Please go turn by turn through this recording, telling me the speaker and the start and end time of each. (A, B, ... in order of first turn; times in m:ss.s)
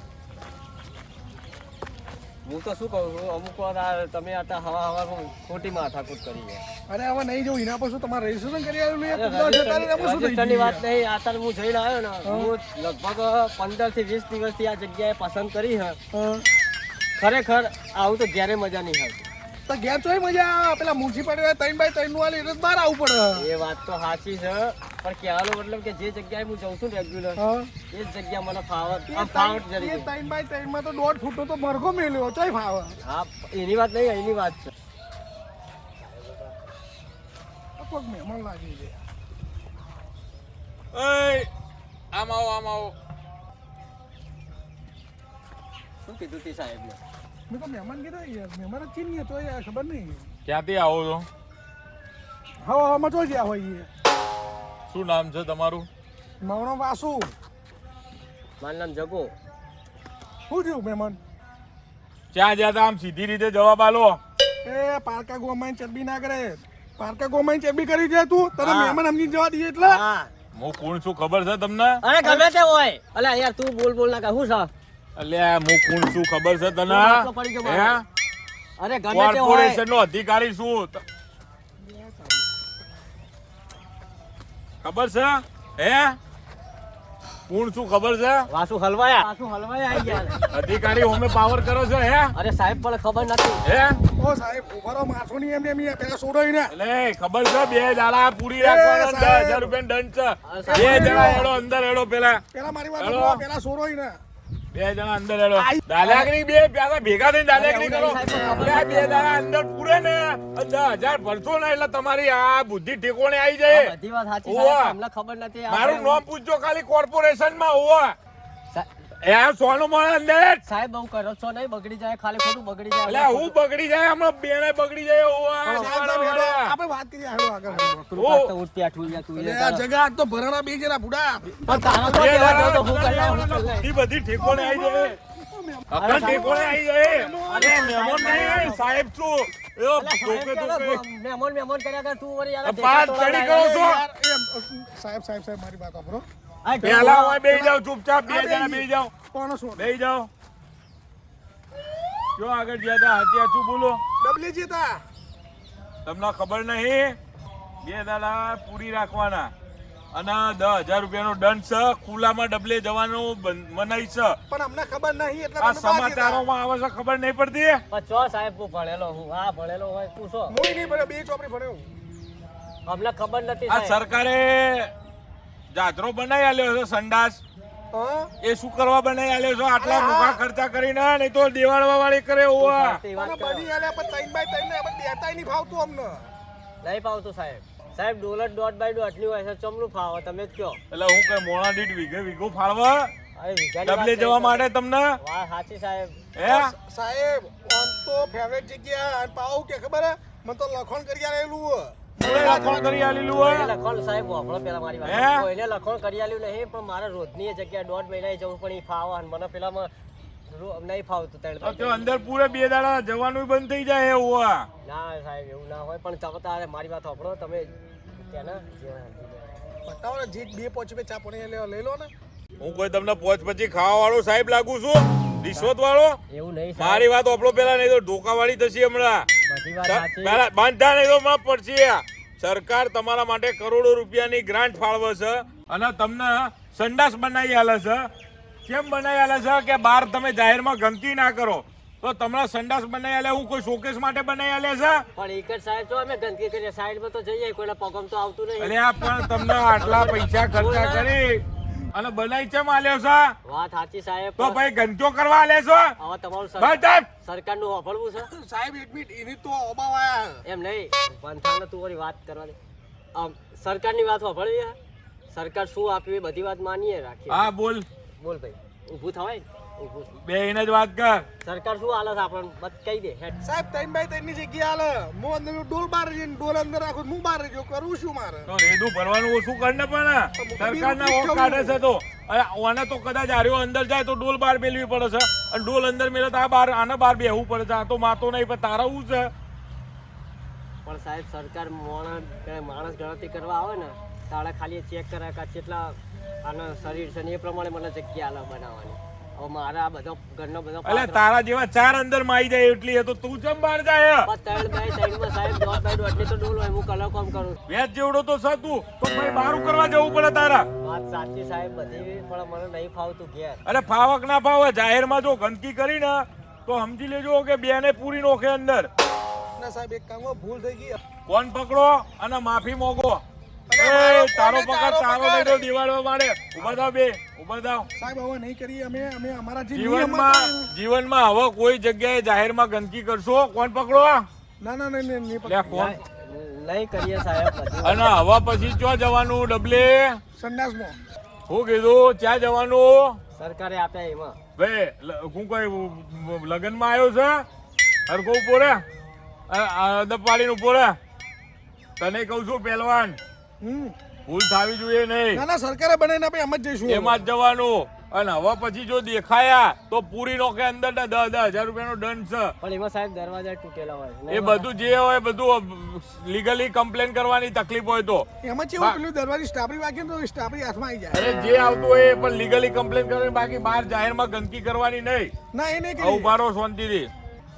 0:02.4-0:06.6 A
0:06.9-0:10.8 B
0:09.1-0:16.0 A
0:12.2-0:12.5 B
0:16.1-0:16.4 B
0:17.2-0:19.2 A
0:19.7-0:23.4 B
0:23.4-0:30.1 A
0:27.4-0:27.7 B
0:29.1-0:33.0 B
0:33.0-0:34.7 A
0:36.0-0:36.6 A
0:37.8-0:39.0 B
0:40.9-0:41.5 C
0:42.1-0:42.9 C
0:46.0-0:47.0 A
0:47.5-0:50.3 B
0:50.5-0:51.3 C
0:52.6-0:53.9 B
0:54.9-0:55.9 C
0:56.4-0:57.3 B
0:58.6-0:59.3 A
1:00.5-1:01.2 B
1:02.3-1:04.2 C
1:04.6-1:10.0 B
1:08.6-1:09.0 A
1:09.8-1:10.3 A
1:10.6-1:12.0 C
1:12.0-1:14.7 A
1:12.2-1:12.5 B
1:15.2-1:18.0 C
1:16.9-1:18.0 A
1:18.8-1:19.8 A
1:19.1-1:21.0 C
1:21.8-1:22.5 B
1:24.8-1:26.2 C
1:27.5-1:28.5 C
1:28.5-1:30.4 A
1:30.5-1:32.3 C
1:32.3-1:33.6 A
1:33.6-1:34.0 C
1:34.2-1:36.7 B
1:36.7-1:42.4 C
1:38.6-1:39.8 B
1:40.4-1:41.5 A
1:40.7-1:41.5 B
1:42.5-1:44.2 B
1:43.0-1:43.4 C
1:44.7-1:53.9 C
1:46.0-1:46.3 A
1:47.5-1:49.3 A
1:53.7-1:56.2 A
1:54.5-1:54.9 C
1:55.7-1:58.2 C
1:59.2-2:00.6 C
2:00.6-2:03.6 A
2:03.1-2:06.8 C
2:05.6-2:06.0 A
2:05.8-2:08.0 B
2:07.7-2:09.8 A
2:08.2-2:08.5 C
2:09.4-2:12.0 B
2:11.7-2:13.9 A
2:11.7-2:15.2 C
2:14.4-2:18.8 B
2:15.9-2:21.0 C
2:16.0-2:16.7 A
2:17.5-2:18.8 A
2:20.0-2:23.7 A
2:22.6-2:24.0 C
2:23.5-2:26.3 B
2:26.6-2:27.7 A
2:26.8-2:29.1 C
2:28.2-2:29.9 B
2:29.8-2:30.3 C
2:32.4-2:34.0 C
2:34.2-2:35.0 B
2:36.0-2:37.2 C
2:37.8-2:39.5 C
2:40.1-2:44.4 C
2:44.5-2:46.4 B
2:45.6-2:47.8 C
2:47.9-2:50.6 A
2:50.5-2:51.9 B
2:52.9-2:54.0 A
2:53.7-2:54.9 C
2:55.7-2:57.4 C
2:57.9-2:58.3 B
2:58.4-3:03.0 C
2:59.8-3:00.4 B
3:02.6-3:03.7 A
3:03.2-3:06.3 B
3:06.8-3:10.8 A
3:10.9-3:13.1 C
3:13.4-3:14.7 A
3:13.8-3:15.2 C
3:15.2-3:16.2 A
3:16.4-3:16.7 C
3:16.4-3:22.8 B
3:22.2-3:23.7 C
3:23.3-3:29.9 A
3:25.0-3:25.5 C
3:30.5-3:32.1 A
3:31.6-3:34.7 C
3:34.8-3:39.5 A
3:39.8-3:42.1 B
3:42.6-3:46.2 C
3:46.3-3:47.1 A
3:46.8-3:49.3 C
3:49.5-3:50.4 A
3:49.9-3:58.1 C
3:58.7-4:05.0 C
4:05.2-4:08.8 A
4:08.6-4:13.4 C
4:09.8-4:11.1 A
4:13.4-4:14.6 A
4:14.4-4:15.9 C
4:16.0-4:18.3 A
4:16.6-4:17.1 C
4:18.3-4:20.4 B
4:20.4-4:22.6 A
4:23.1-4:24.8 A
4:25.3-4:27.5 A
4:27.3-4:27.9 C
4:28.2-4:30.2 A
4:30.2-4:31.3 C
4:31.4-4:33.4 A
4:33.4-4:38.5 B
4:38.5-4:49.3 C
4:40.4-4:41.8 B
4:50.8-5:01.2 A
5:00.8-5:04.3 C
5:04.3-5:07.6 A
5:07.7-5:10.7 C
5:10.8-5:13.6 A
5:13.6-5:18.9 C
5:19.6-5:21.0 B
5:21.3-5:23.2 C
5:23.7-5:25.7 B
5:23.8-5:27.9 C
5:28.0-5:30.7 B
5:29.7-5:34.3 C
5:34.6-5:35.8 B
5:35.4-5:36.0 C
5:35.7-5:38.1 A
5:37.8-5:40.2 C
5:40.4-5:41.0 B
5:41.5-5:43.2 C
5:43.4-5:44.4 A
5:44.6-5:47.4 C
5:48.1-5:48.8 C
5:49.5-5:51.0 C
5:52.0-5:53.2 C
5:53.6-5:54.0 B
5:54.3-5:55.4 C
5:55.3-5:57.2 B
5:56.8-6:02.5 C
6:02.6-6:04.7 A
6:04.3-6:08.3 C
6:08.4-6:11.2 B
6:11.1-6:15.3 C
6:15.5-6:16.3 B
6:16.0-6:17.1 C